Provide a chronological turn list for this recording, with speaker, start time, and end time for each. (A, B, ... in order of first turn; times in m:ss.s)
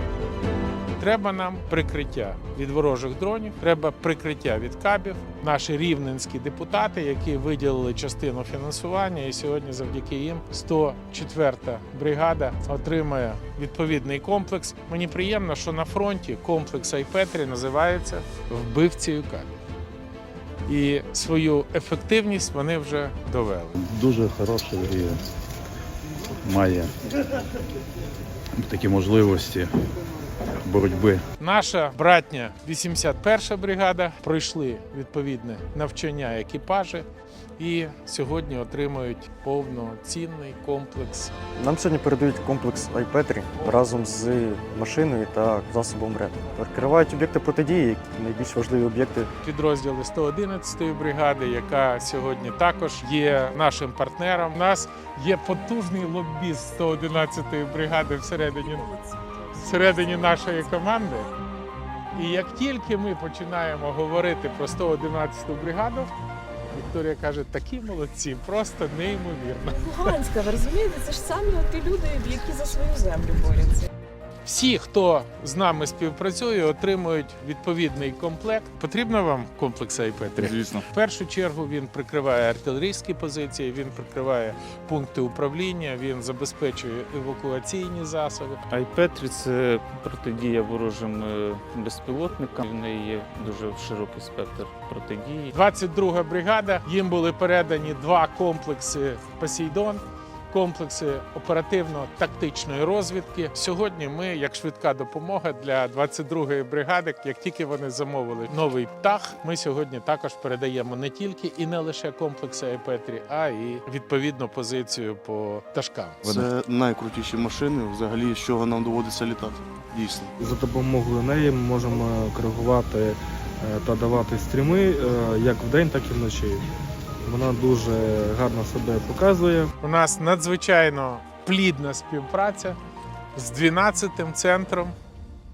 0:01.0-0:19.5 A
0:20.7-0:23.8 A
0:23.8-0:25.2 B
0:26.4-0:26.9 B
0:28.6-0:29.7 B
0:30.6-0:31.2 B
0:31.4-0:37.1 A
0:37.6-0:41.3 A
0:41.6-0:49.3 C
0:49.4-0:58.9 A
0:58.5-1:01.3 D
0:59.6-1:01.3 A
1:02.2-1:06.1 A
1:06.7-1:10.1 A
1:09.7-1:13.9 D
1:14.4-1:28.6 A
1:28.7-1:35.5 E
1:35.5-1:56.3 A
1:56.3-2:00.3 F
2:00.4-2:06.7 G
2:07.3-2:09.7 G
2:09.8-2:12.8 A
2:13.4-2:15.0 A